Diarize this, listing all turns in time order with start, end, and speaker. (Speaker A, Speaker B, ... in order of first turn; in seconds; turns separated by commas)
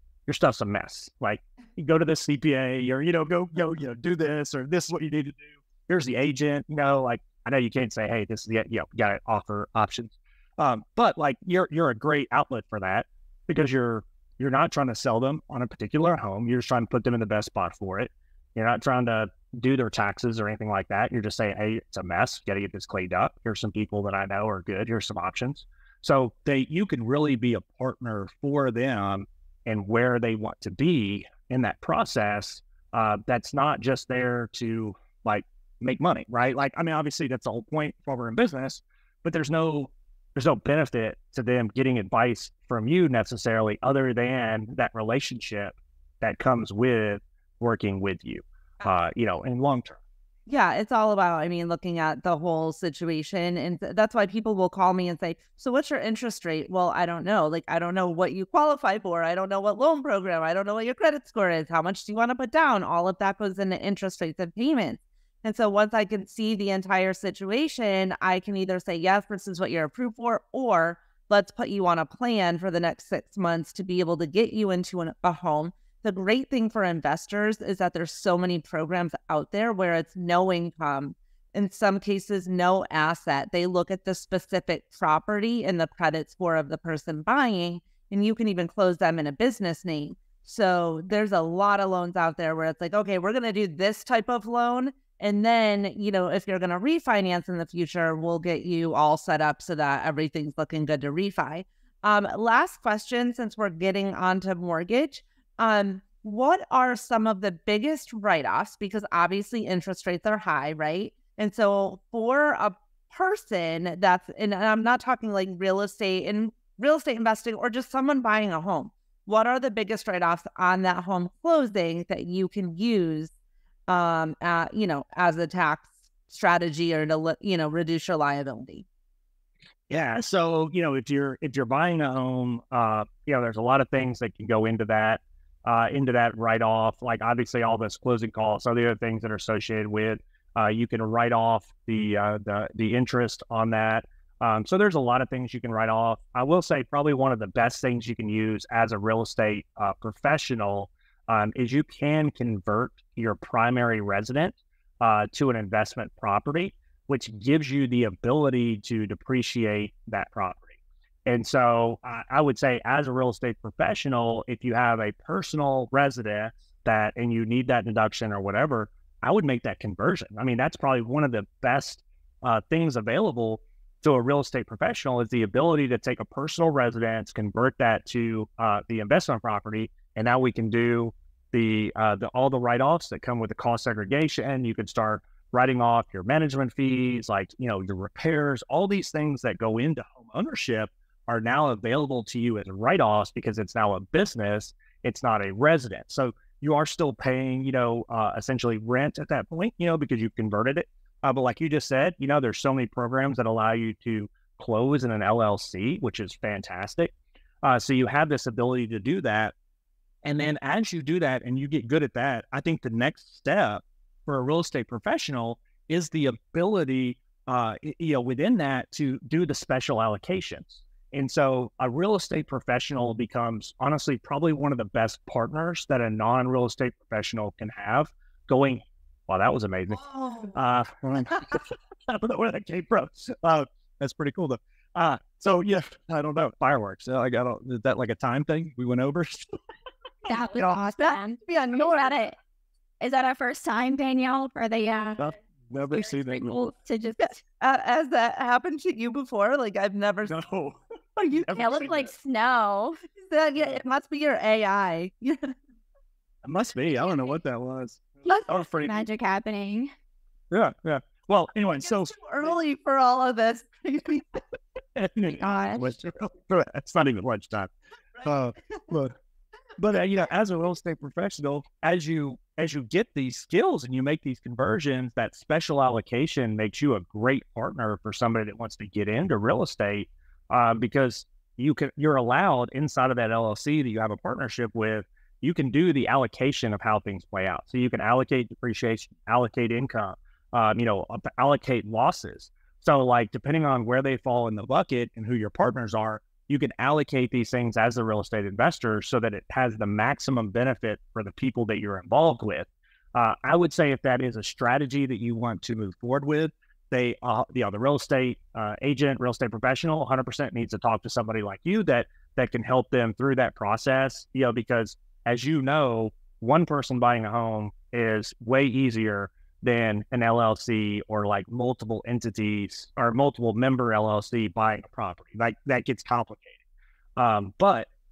Speaker A: 0.3-50.0, Speaker B: 50.5-123.3, Speaker B: 123.9-128.9, Speaker A: 129.9-209.5, Speaker A: 210.2-239.6, Speaker B: 230.0-230.5, Speaker C: 240.3-242.3, Speaker B: 240.9-242.3, Speaker C: 243.0-245.3, Speaker A: 245.2-246.6, Speaker C: 245.9-247.4, Speaker B: 247.6-250.3, Speaker A: 250.3-252.1, Speaker B: 251.3-251.6, Speaker C: 251.5-253.0, Speaker B: 253.1-255.5, Speaker A: 256.4-259.0, Speaker C: 258.3-259.9, Speaker A: 260.5-262.1, Speaker B: 261.8-264.4, Speaker A: 264.9-267.7, Speaker C: 265.3-265.9, Speaker A: 268.2-269.1, Speaker A: 269.8-326.6, Speaker A: 327.2-327.9